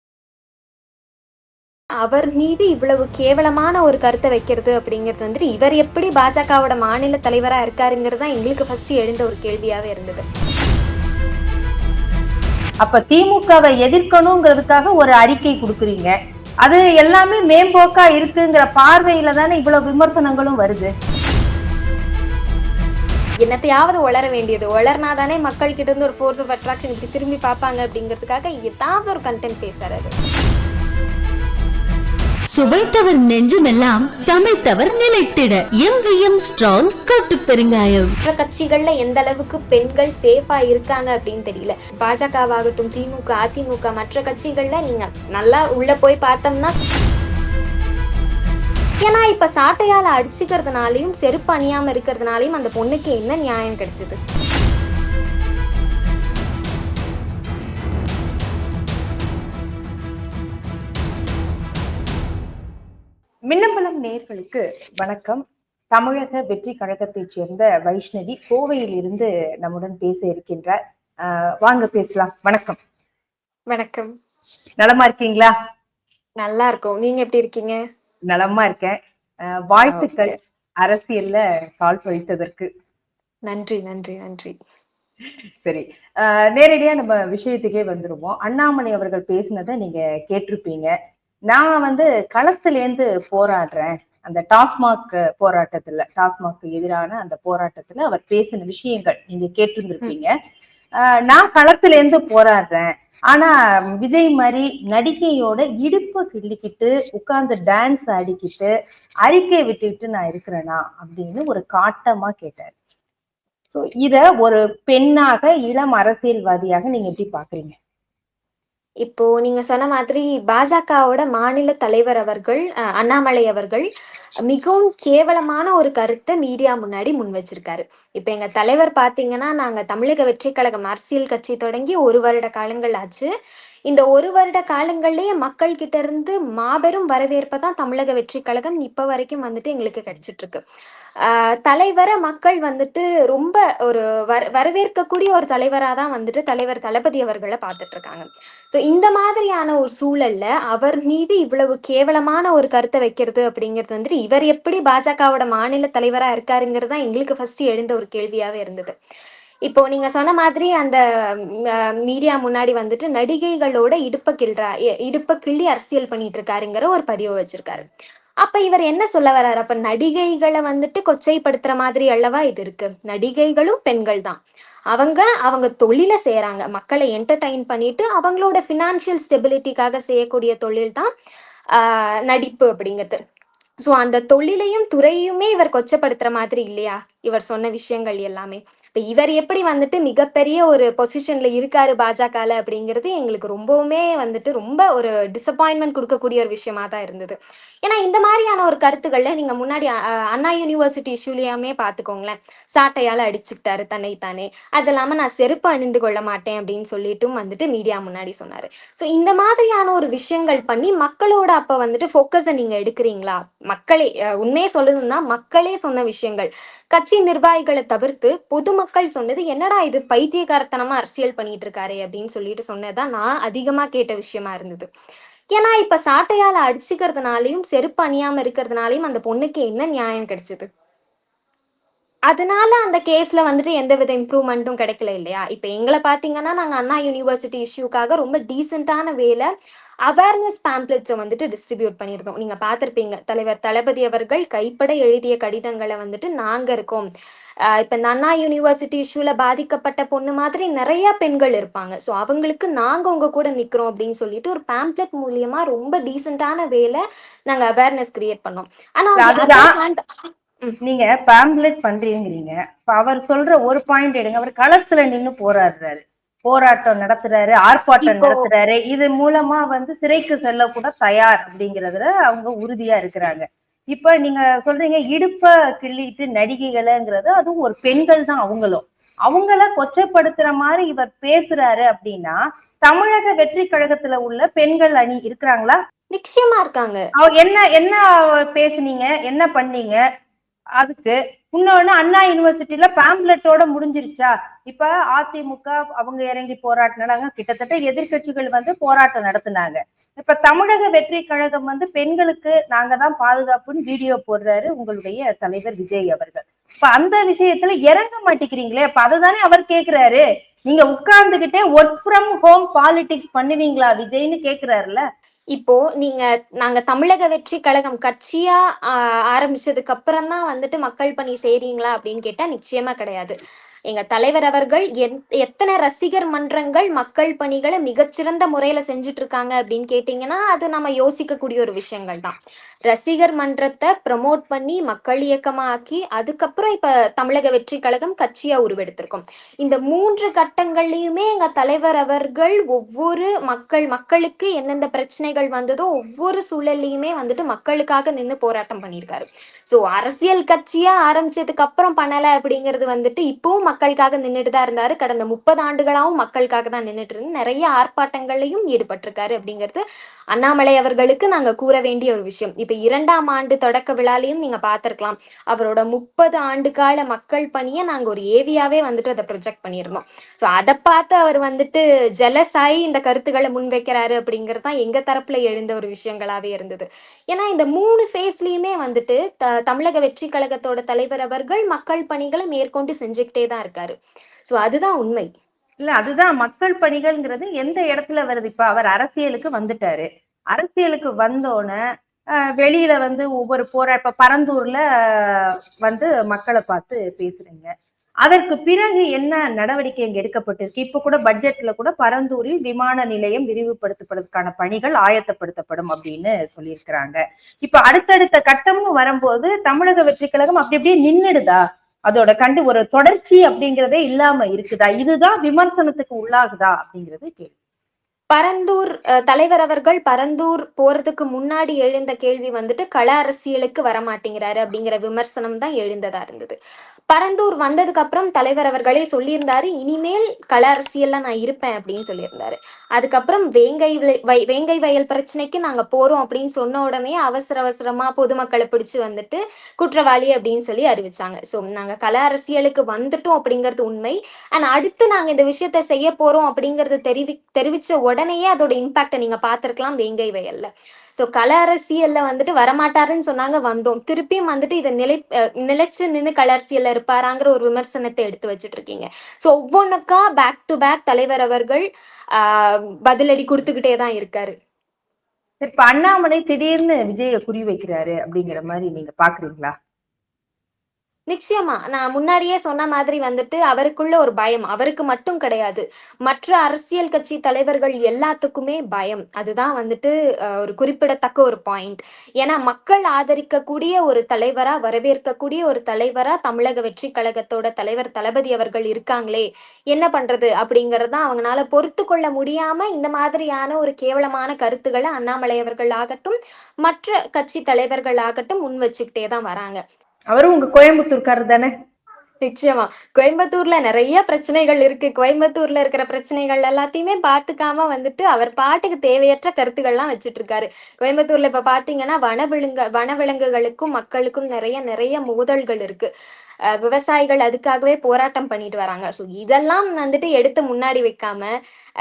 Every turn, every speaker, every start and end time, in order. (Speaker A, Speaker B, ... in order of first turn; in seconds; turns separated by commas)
Speaker A: 2.0-10.2, Speaker B: 12.8-20.9, Speaker A: 23.4-30.1, Speaker C: 32.5-38.1, Speaker A: 38.2-46.7, Speaker A: 49.0-54.2, Speaker B: 63.5-65.4, Speaker B: 65.9-72.8, Speaker A: 73.7-74.1, Speaker B: 74.8-75.5, Speaker A: 76.4-77.8, Speaker B: 78.3-79.0, Speaker B: 79.7-82.7, Speaker A: 79.8-80.4, Speaker A: 83.5-84.5, Speaker B: 85.6-90.9, Speaker B: 91.5-100.3, Speaker B: 101.2-108.7, Speaker B: 109.2-112.7, Speaker B: 113.7-117.8, Speaker A: 119.0-123.8, Speaker A: 124.5-133.3, Speaker A: 133.9-140.6, Speaker A: 141.2-158.9, Speaker A: 159.7-167.9, Speaker A: 168.4-174.4, Speaker A: 174.9-181.1, Speaker A: 181.7-183.2, Speaker A: 183.9-224.9, Speaker A: 225.5-230.7, Speaker A: 232.3-239.5, Speaker A: 240.1-247.1, Speaker A: 247.8-260.8, Speaker B: 259.2-259.8, Speaker B: 260.9-285.8, Speaker A: 268.0-268.5, Speaker A: 286.1-287.0, Speaker B: 287.2-290.0, Speaker B: 290.8-315.0, Speaker A: 315.5-323.4, Speaker A: 323.9-332.4, Speaker A: 332.9-359.8, Speaker A: 360.3-384.0, Speaker A: 384.5-385.3, Speaker B: 385.8-391.8, Speaker B: 392.6-397.7, Speaker B: 398.2-417.5, Speaker A: 418.3-426.6, Speaker A: 427.1-461.8, Speaker A: 462.4-464.5, Speaker B: 465.6-469.7, Speaker A: 471.3-499.8, Speaker B: 500.3-501.7, Speaker A: 502.4-516.1, Speaker A: 516.7-521.5